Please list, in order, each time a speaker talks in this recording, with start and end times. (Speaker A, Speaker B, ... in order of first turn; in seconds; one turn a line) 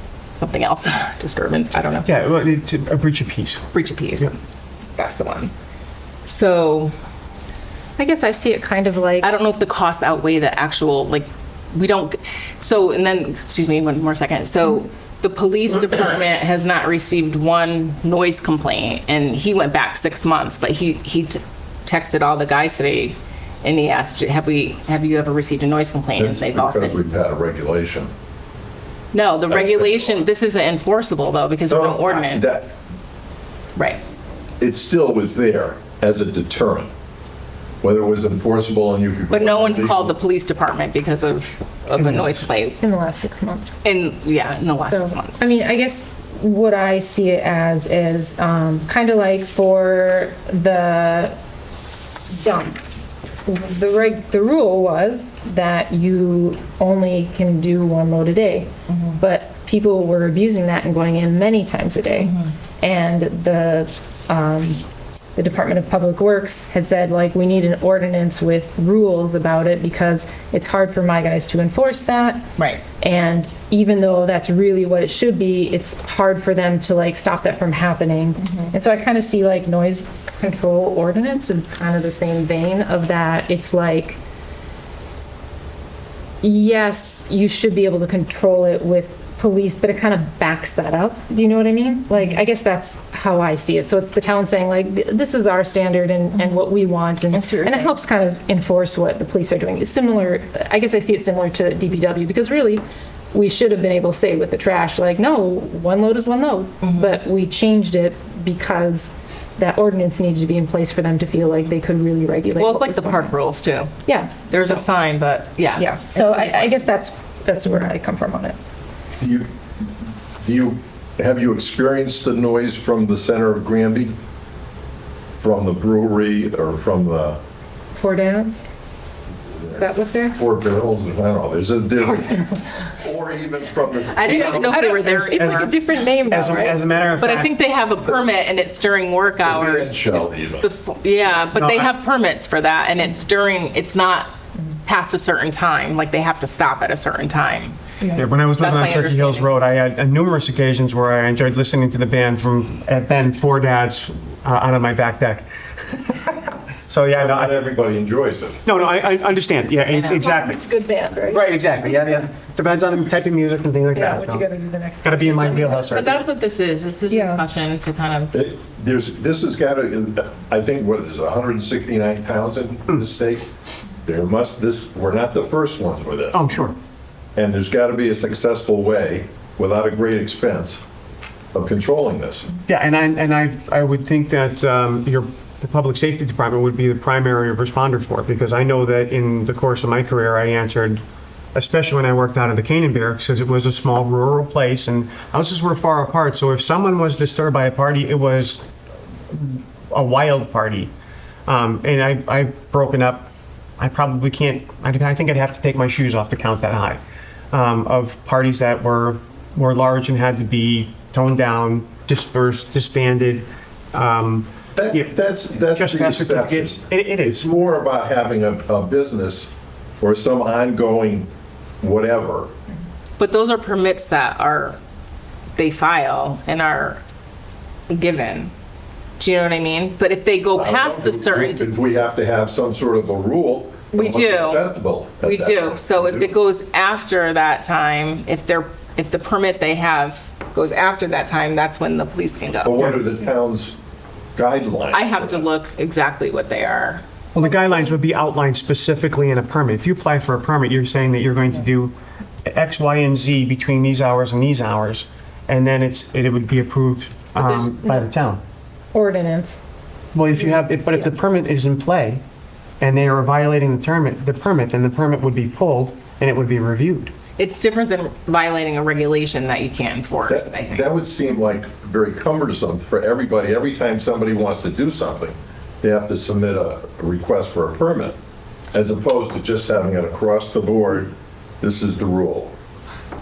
Speaker A: 0.4-2.1
Speaker B: 2.0-3.6
Speaker A: 3.7-4.3
Speaker A: 5.0-5.5
Speaker A: 6.2-6.9
Speaker C: 8.0-9.3
Speaker A: 9.2-27.0
Speaker D: 26.2-28.1
Speaker A: 29.1-32.5
Speaker D: 29.5-30.2
Speaker D: 31.7-32.7
Speaker D: 34.6-36.9
Speaker D: 37.8-40.1
Speaker A: 39.3-42.8
Speaker C: 42.8-43.8
Speaker A: 43.8-45.4
Speaker C: 44.8-51.3
Speaker C: 52.3-52.8
Speaker C: 53.5-64.8
Speaker A: 58.9-59.2
Speaker C: 65.3-72.5
Speaker A: 72.6-72.8
Speaker C: 73.0-84.2
Speaker A: 78.4-78.7
Speaker C: 86.4-102.8
Speaker A: 97.3-98.0
Speaker C: 103.3-113.3
Speaker A: 112.5-116.7
Speaker C: 114.0-114.8
Speaker C: 115.8-118.6
Speaker D: 119.2-119.5
Speaker D: 120.4-124.1
Speaker D: 125.4-127.4
Speaker C: 128.0-128.6
Speaker D: 129.5-134.9
Speaker C: 129.7-130.4
Speaker A: 134.1-135.7
Speaker C: 134.3-136.8
Speaker B: 135.3-137.5
Speaker A: 137.2-144.3
Speaker D: 139.4-140.7
Speaker B: 141.6-141.9
Speaker A: 144.8-147.8
Speaker B: 148.1-157.6
Speaker A: 148.6-149.5
Speaker D: 157.1-158.6
Speaker B: 158.6-160.6
Speaker C: 160.0-161.4
Speaker B: 161.3-164.5
Speaker C: 163.9-165.9
Speaker B: 165.0-166.2
Speaker A: 165.4-168.3
Speaker C: 167.1-167.4
Speaker D: 168.3-173.4
Speaker D: 174.1-176.4
Speaker B: 176.3-176.7
Speaker D: 177.3-180.8
Speaker D: 181.5-182.5
Speaker B: 182.7-191.0
Speaker B: 191.5-198.6
Speaker B: 199.3-200.9
Speaker B: 201.5-207.0
Speaker B: 207.5-215.1
Speaker D: 214.8-221.3
Speaker B: 215.7-217.4
Speaker D: 221.8-222.5
Speaker A: 223.2-224.8
Speaker A: 225.6-227.0
Speaker A: 227.9-228.5
Speaker A: 229.2-231.7
Speaker D: 230.5-236.3
Speaker A: 233.9-234.6
Speaker A: 235.2-242.8
Speaker D: 242.6-243.7
Speaker D: 244.3-245.4
Speaker A: 244.9-247.0
Speaker B: 247.3-251.9
Speaker B: 252.4-258.4
Speaker C: 258.9-259.6
Speaker B: 260.1-262.2
Speaker B: 262.8-267.1
Speaker A: 267.4-270.8
Speaker D: 270.3-278.2
Speaker D: 278.7-282.5